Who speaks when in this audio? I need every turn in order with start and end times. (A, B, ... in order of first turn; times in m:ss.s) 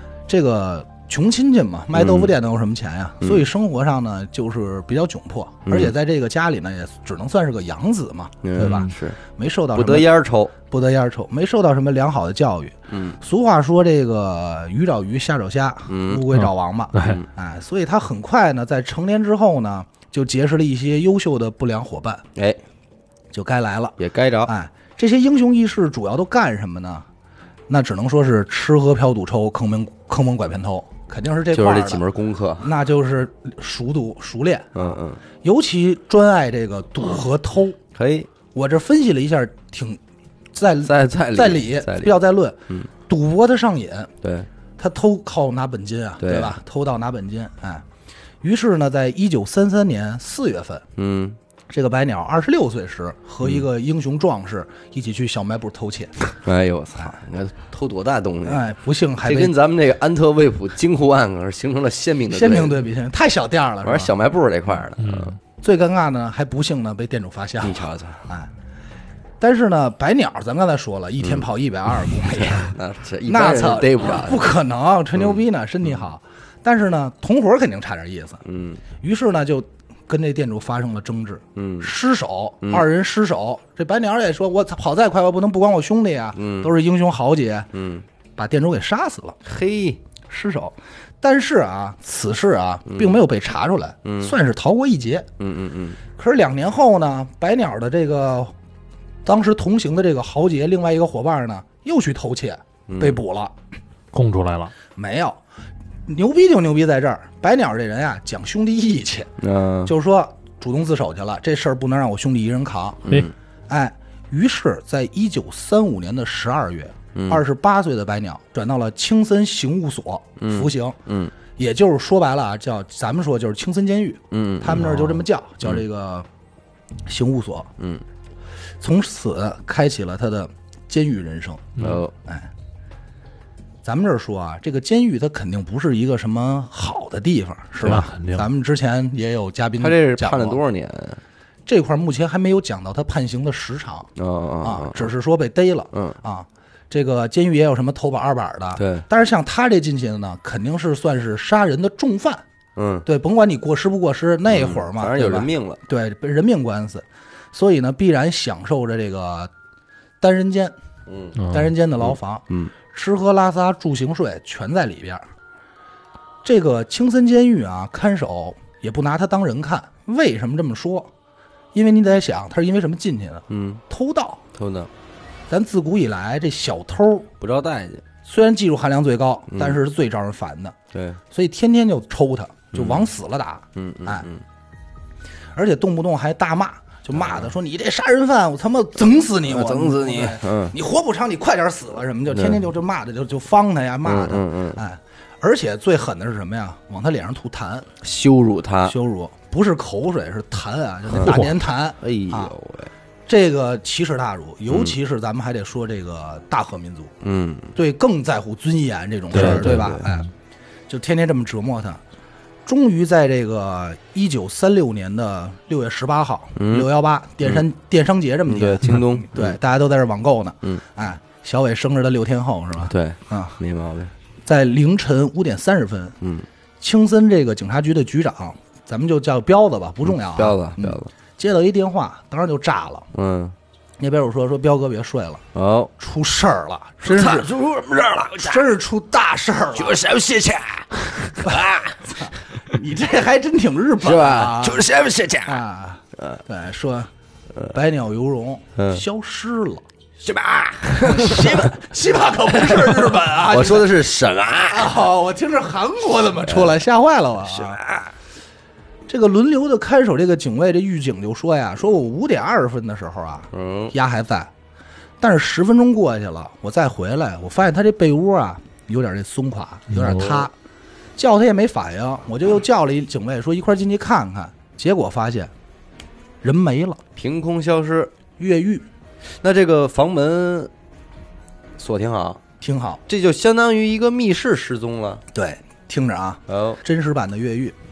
0:00.3-0:22.2 A
0:02.0-0:02.3 B
0:05.7-0:05.9 B
0:08.4-0:09.2 B
0:08.6-0:08.9 C
0:09.7-0:10.5 B
0:12.9-0:13.2 B
0:15.9-0:16.2 B
0:16.3-0:17.2 C
0:17.0-0:17.3 B
0:22.4-0:22.6 B
0:23.3-0:27.1 A
0:24.0-0:24.5 B
0:27.7-0:32.0 A
0:31.5-0:32.7 B
0:32.6-0:37.8 A
0:34.8-0:35.2 B
0:38.0-0:38.3 B
0:38.5-0:40.0 A
0:40.5-0:44.1 A
0:40.8-0:42.9 B
0:44.2-0:44.5 B
0:44.8-0:47.8 A
0:46.2-0:46.6 B
0:48.4-0:50.8 A
0:51.0-0:51.4 B
0:51.7-0:56.2 A
0:56.4-0:58.7 B
0:58.4-0:59.6 A
0:59.2-1:02.8 B
1:02.3-1:04.1 A
1:03.8-1:05.4 B
1:05.0-1:05.4 C
1:05.6-1:08.5 A
1:07.6-1:08.2 B
1:09.4-1:18.4 A
1:12.4-1:14.5 B
1:18.4-1:18.8 B
1:19.0-1:27.7 A
1:21.6-1:21.9 B
1:26.4-1:26.7 B
1:27.7-1:28.0 B
1:28.4-1:29.4 A
1:29.4-1:30.0 B
1:30.3-1:35.3 A
1:32.9-1:33.2 B
1:34.0-1:34.3 B
1:35.4-1:36.0 B
1:36.2-1:38.5 A
1:39.2-1:43.5 A
1:42.9-1:43.2 B
1:44.1-1:44.7 C
1:44.9-1:45.4 A
1:46.1-1:49.3 A
1:49.4-1:49.9 B
1:49.9-1:53.0 A
1:53.0-1:53.3 B
1:53.7-2:01.0 A
1:57.1-1:57.4 B
2:00.4-2:01.3 B
2:01.6-2:06.3 A
2:04.3-2:05.1 B
2:07.1-2:07.7 A
2:07.8-2:08.0 B
2:08.8-2:12.5 A
2:11.8-2:12.0 C
2:11.8-2:12.1 B
2:13.8-2:20.6 A
2:17.8-2:18.5 C
2:19.8-2:21.2 B
2:21.7-2:24.1 A
2:24.2-2:25.1 B
2:24.6-2:32.4 A
2:25.9-2:26.2 B
2:28.8-2:29.1 B
2:32.8-2:33.1 B
2:33.0-2:39.5 A
2:34.5-2:35.8 B
2:40.2-2:40.8 A
2:41.1-2:41.4 B
2:41.5-2:45.2 A
2:42.0-2:42.7 B
2:46.4-2:51.1 A
2:51.7-2:54.4 A
2:53.5-2:53.8 B
2:54.5-2:54.9 B
2:55.5-2:57.3 A
2:57.4-2:58.0 B
2:58.2-3:00.8 A
2:59.5-2:59.8 B
3:00.9-3:01.2 B
3:01.3-3:04.3 A
3:02.7-3:03.1 B
3:03.8-3:04.4 B
3:05.6-3:17.9 A
3:07.1-3:07.5 B
3:09.5-3:10.8 B
3:12.3-3:12.6 B
3:14.0-3:14.8 B
3:18.0-3:19.0 B
3:18.8-3:22.5 A
3:21.1-3:21.4 B
3:21.2-3:21.6 C
3:22.0-3:22.9 B
3:23.3-3:27.1 A
3:24.7-3:24.9 B
3:27.2-3:27.8 B
3:27.8-3:30.3 A
3:29.3-3:30.1 B
3:29.4-3:30.2 C
3:30.9-3:32.0 A
3:32.7-3:43.6 A
3:36.6-3:36.9 B
3:38.5-3:39.6 B
3:42.8-3:44.1 B
3:44.4-3:46.2 A
3:46.2-3:46.4 B
3:46.8-3:53.1 A
3:50.1-3:51.1 B
3:53.1-3:53.6 B
3:54.0-3:55.4 A
3:55.5-3:55.9 B
3:56.0-3:57.6 A
3:57.0-3:58.7 B
3:58.4-4:00.0 A
3:59.8-4:02.0 B
4:01.4-4:04.9 A
4:04.0-4:05.6 B
4:05.4-4:07.1 A
4:06.2-4:06.4 B
4:07.7-4:09.8 A
4:08.8-4:09.0 B
4:10.2-4:11.8 B
4:10.9-4:13.9 A
4:12.5-4:15.0 B
4:14.7-4:17.8 A
4:16.4-4:16.8 B
4:17.4-4:18.1 B
4:19.1-4:24.5 A
4:23.5-4:23.9 B
4:25.2-4:30.5 A
4:29.9-4:30.4 C
4:31.2-4:35.5 A
4:36.4-4:37.0 A
4:37.2-4:38.1 B
4:38.4-4:38.9 A
4:39.4-4:40.7 B
4:41.8-4:42.4 B
4:42.6-4:43.0 A
4:43.1-4:45.2 B
4:45.3-4:47.8 A
4:46.5-4:46.8 B